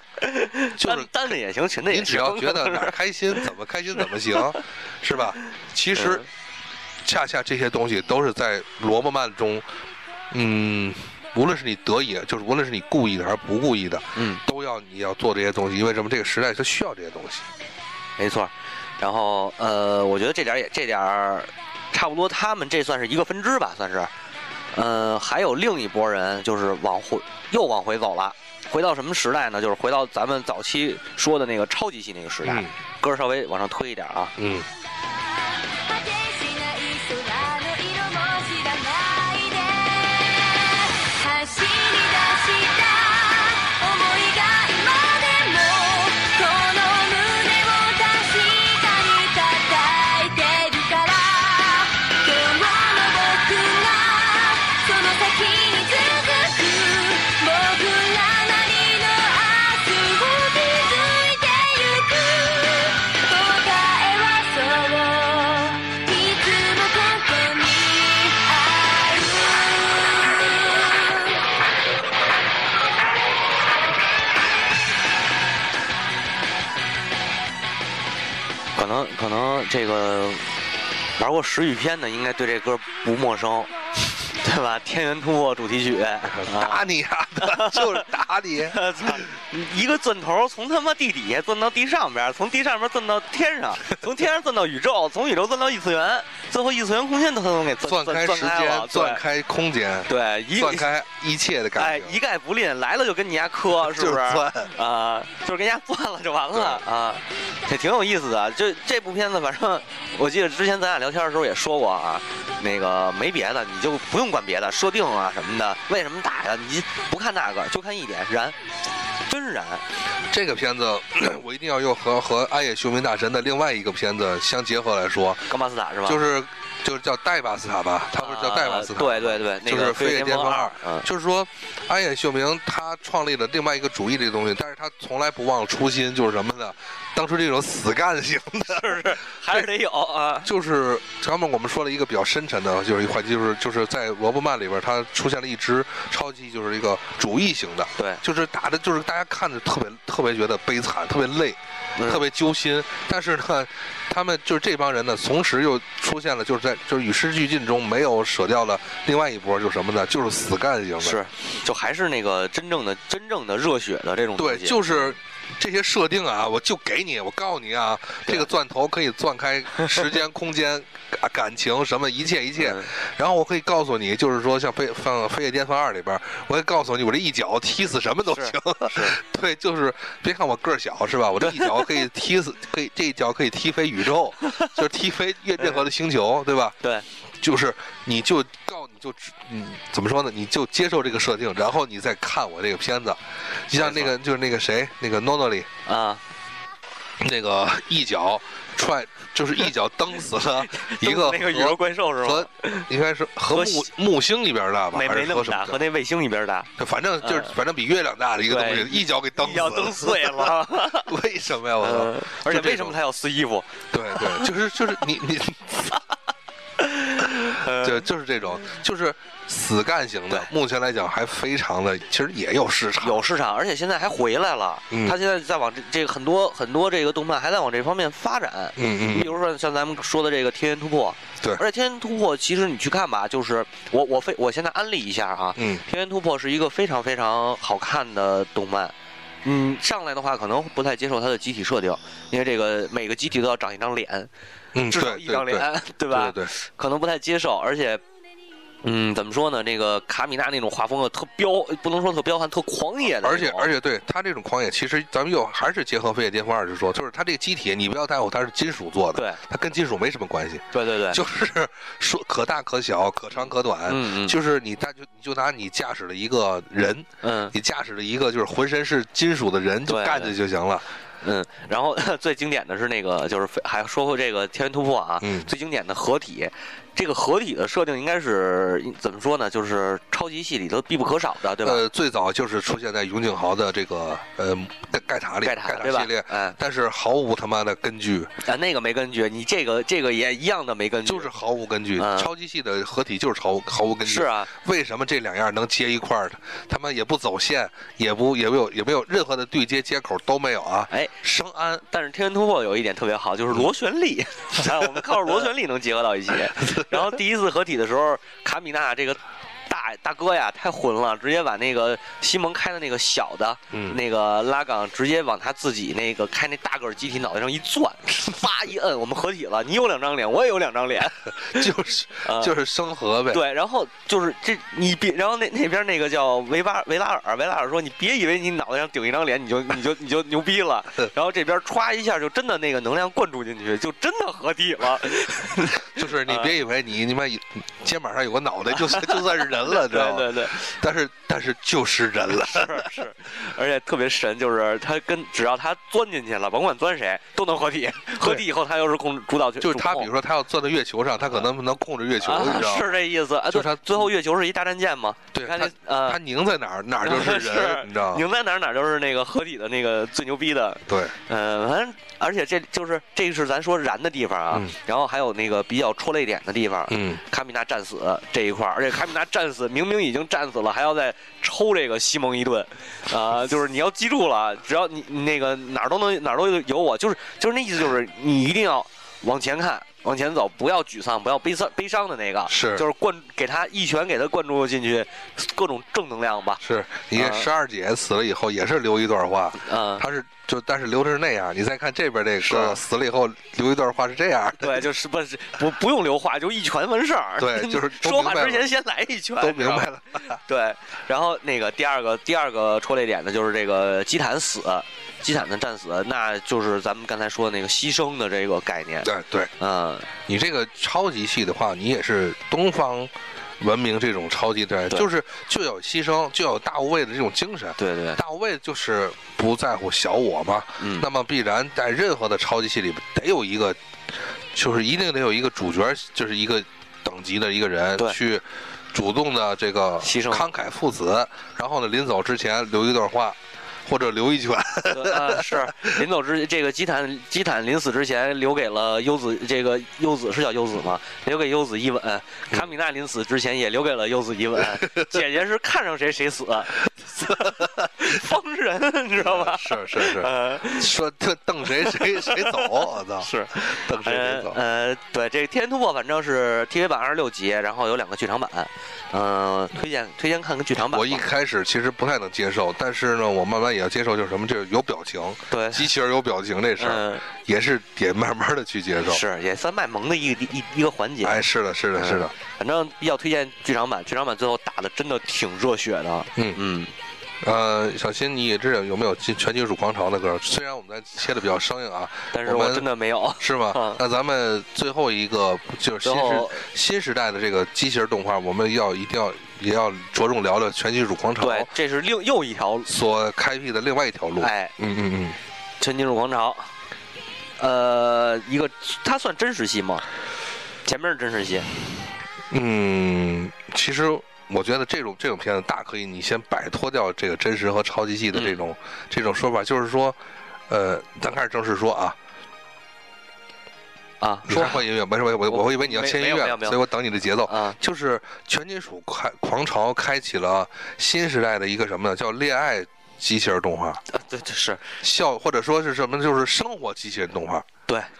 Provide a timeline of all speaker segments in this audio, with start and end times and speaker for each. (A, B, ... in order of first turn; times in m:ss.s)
0:00.2-0:03.5 A
0:00.8-0:01.3 B
0:01.9-0:06.2 B
0:05.9-0:06.3 A
0:07.0-0:09.6 B
0:10.3-0:17.4 B
0:14.2-0:14.4 A
0:18.2-0:24.1 A
0:24.7-0:34.3 A
0:32.4-0:32.7 B
0:34.4-0:34.7 B
0:35.0-1:11.4 C
1:18.8-1:20.4 A
1:21.2-1:23.7 A
1:24.3-1:26.8 A
1:26.3-1:29.2 B
1:27.4-1:28.1 A
1:28.7-1:39.2 A
1:37.8-1:42.2 B
1:40.1-1:40.9 A
1:41.8-1:58.6 A
1:43.7-1:44.7 B
1:46.5-1:46.8 B
1:59.2-1:59.8 A
2:00.3-2:05.5 B
2:05.5-2:06.2 A
2:06.0-2:19.7 B
2:08.2-2:11.1 A
2:18.6-2:20.5 A
2:20.4-2:41.2 B
2:32.0-2:32.2 A
2:41.0-2:45.1 A
2:44.4-3:06.8 B
2:52.6-2:52.9 A
2:58.3-2:59.2 A
3:01.4-3:02.0 A
3:04.4-3:04.7 A
3:07.4-3:15.7 B
3:13.8-3:14.1 A
3:15.8-3:16.2 A
3:17.2-3:25.8 B
3:20.6-3:22.9 A
3:23.5-3:23.9 A
3:24.9-3:26.7 A
3:26.8-3:33.0 B
3:27.2-3:27.5 A
3:28.4-3:31.1 A
3:31.8-3:34.5 A
3:33.9-3:36.0 B
3:36.8-3:38.0 A
3:37.6-3:43.2 B
3:43.0-4:04.3 A
3:44.9-3:45.2 B
3:48.8-3:49.4 B
3:55.6-3:55.8 B
4:04.7-4:06.5 B
4:04.8-4:08.0 A
4:08.8-4:13.7 A
4:13.2-4:30.8 B
4:20.7-4:21.2 A
4:23.9-4:24.4 A
4:27.2-4:27.5 A
4:29.9-4:30.3 A
4:31.2-4:41.8 A
4:35.2-4:35.5 B
4:41.6-4:48.3 B
4:45.4-4:46.6 A
4:48.4-4:51.3 A
4:51.0-5:01.8 B
4:52.0-4:52.3 A
4:54.0-4:54.5 A
5:01.8-5:22.5 A
5:04.6-5:05.0 B
5:13.7-5:14.0 B
5:21.4-5:23.4 B
5:23.3-5:36.5 A
5:35.8-5:42.9 B
5:38.7-5:40.7 A
5:42.4-5:50.1 A
5:49.6-5:53.0 B
5:52.2-5:56.2 A
5:53.5-5:54.1 B
5:55.3-5:58.2 B
5:57.0-6:26.6 A
6:00.9-6:01.1 B
6:06.9-6:07.2 B
6:22.5-6:22.8 B
6:26.6-6:34.8 B
6:27.2-6:27.5 A
6:29.6-6:30.0 A
6:32.4-6:32.8 A
6:34.6-6:50.1 A
6:37.4-6:38.7 B
6:39.4-6:40.4 B
6:49.0-6:49.5 B
6:50.2-7:16.0 B
6:57.8-6:58.2 A
7:00.8-7:01.1 A
7:10.0-7:10.4 A
7:14.9-7:30.9 A
7:24.8-7:25.0 B
7:27.3-7:28.1 B
7:29.2-7:34.6 B
7:31.8-7:41.2 A
7:40.8-7:49.2 B
7:45.5-7:45.9 A
7:46.8-7:47.2 A
7:49.0-7:51.4 A
7:51.2-7:52.3 B
7:52.0-7:56.9 A
7:57.4-8:02.9 B
8:02.3-8:04.0 A
8:03.4-8:11.7 B
8:06.0-8:06.6 A
8:11.4-8:12.9 A
8:12.8-8:15.4 B
8:14.4-8:14.7 A
8:15.8-8:16.7 A
8:17.6-8:20.0 A
8:20.8-8:21.7 A
8:22.5-8:30.2 B
8:28.3-8:28.6 A
8:30.7-8:32.2 B
8:34.2-8:34.8 A
8:34.5-8:44.0 B
8:35.5-8:36.8 A
8:37.5-8:37.8 A
8:44.1-8:44.9 A
8:45.0-8:47.6 B